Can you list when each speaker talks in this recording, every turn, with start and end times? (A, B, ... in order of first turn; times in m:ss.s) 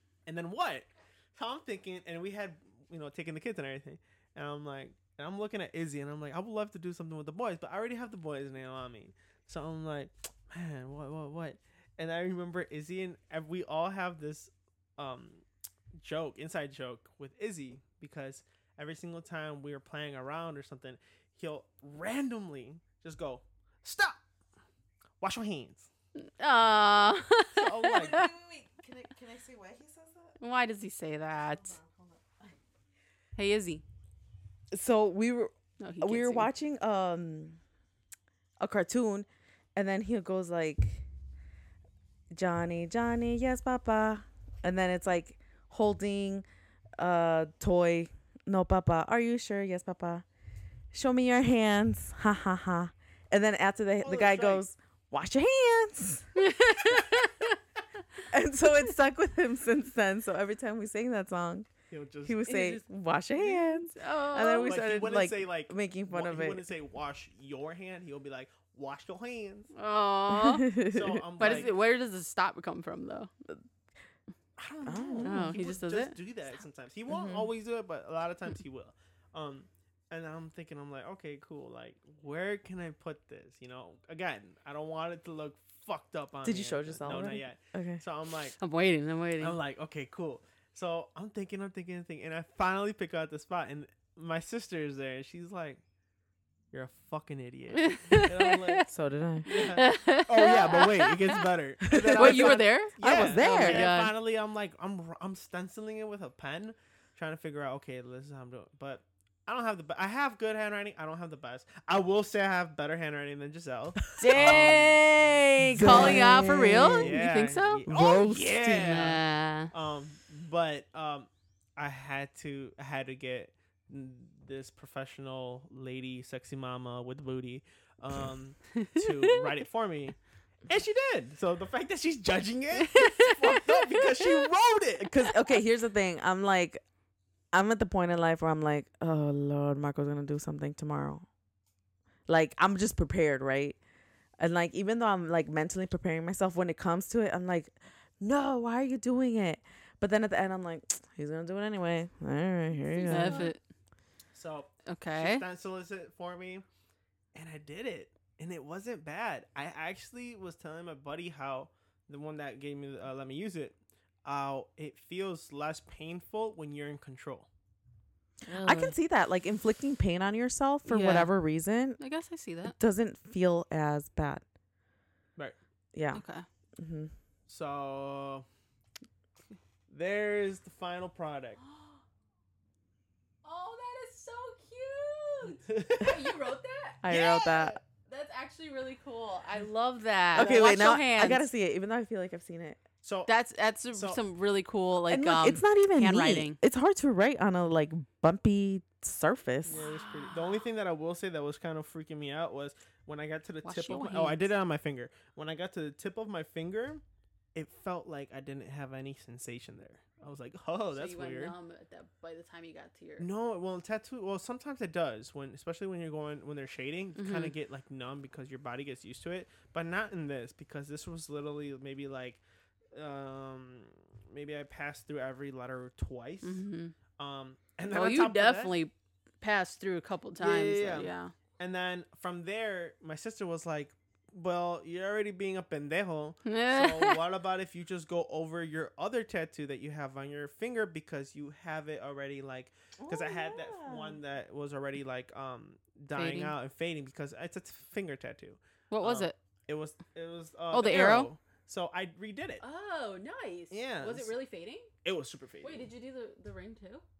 0:00.3-0:15.4 A
0:16.0-0:24.2 A
0:25.2-0:25.9 A
0:26.2-0:28.3 B
0:27.5-0:28.3 A
0:27.9-0:30.3 C
0:30.4-0:31.8 B
0:31.6-0:32.5 C
0:33.4-0:33.8 B
0:34.7-0:37.6 C
0:35.8-0:36.5 B
0:38.6-0:41.0 C
0:42.3-0:46.4 C
0:47.0-0:50.2 C
0:50.9-0:56.3 C
0:54.0-0:54.6 A
0:56.4-0:57.5 B
0:58.3-1:01.7 C
1:01.9-1:02.7 A
1:02.2-1:06.6 C
1:02.5-1:02.8 B
1:03.4-1:04.8 B
1:04.6-1:09.7 A
1:09.7-1:10.7 B
1:10.3-1:11.7 C
1:10.9-1:11.7 A
1:11.4-1:13.3 B
1:14.6-1:28.6 A
1:14.8-1:15.5 C
1:15.2-1:16.2 B
1:17.1-1:17.5 C
1:26.4-1:28.0 C
1:28.6-1:29.6 B
1:29.4-1:35.8 A
1:36.7-1:38.9 A
1:37.7-1:38.8 B
1:38.9-1:39.6 C
1:39.5-1:55.0 A
1:39.5-1:41.4 B
1:41.9-1:43.9 C
1:42.2-1:44.1 B
1:54.2-1:57.8 B
1:54.2-1:54.8 C
1:55.6-1:57.2 C
1:55.8-1:56.2 A
1:57.0-2:15.3 A
1:57.8-1:59.1 C
1:58.7-1:59.7 B
2:08.7-2:09.4 B
2:12.9-2:14.3 B
2:15.0-2:16.8 C
2:17.5-2:21.3 C
2:22.3-2:23.8 C
2:24.4-2:33.5 C
2:33.0-2:33.5 A
2:33.0-2:33.6 B
2:34.3-2:36.6 A
2:34.8-2:35.4 B
2:37.3-2:47.5 A
2:48.5-2:52.0 C
2:50.8-2:51.3 B
2:52.0-2:52.8 B
2:52.6-2:54.4 C
2:55.9-2:56.2 C
2:56.1-2:56.4 B
2:56.8-2:57.1 C
2:57.5-2:58.4 A
2:59.9-3:01.6 A
3:01.7-3:02.0 B
3:03.4-3:11.5 B
3:05.7-3:06.3 A
3:07.0-3:07.8 C
3:07.1-3:07.5 A
3:10.3-3:10.6 A
3:10.3-3:12.8 C
3:13.0-3:13.3 A
3:13.3-3:16.6 B
3:13.9-3:14.2 A
3:15.1-3:19.8 C
3:19.6-3:27.0 A
3:19.8-3:20.3 B
3:23.6-3:24.4 B
3:27.5-3:31.5 A
3:30.9-3:33.2 B
3:33.2-3:42.4 A
3:37.2-3:37.5 B
3:42.9-3:46.6 A
3:46.4-3:46.9 B
3:47.2-3:48.7 A
3:47.9-3:51.3 B
3:50.4-4:12.6 A
3:56.4-3:57.2 B
4:03.0-4:04.2 C
4:06.1-4:06.5 B
4:08.9-4:09.3 B
4:10.7-4:11.3 B
4:12.6-4:14.9 B
4:13.7-4:14.3 A
4:15.0-4:15.9 A
4:15.6-4:17.0 B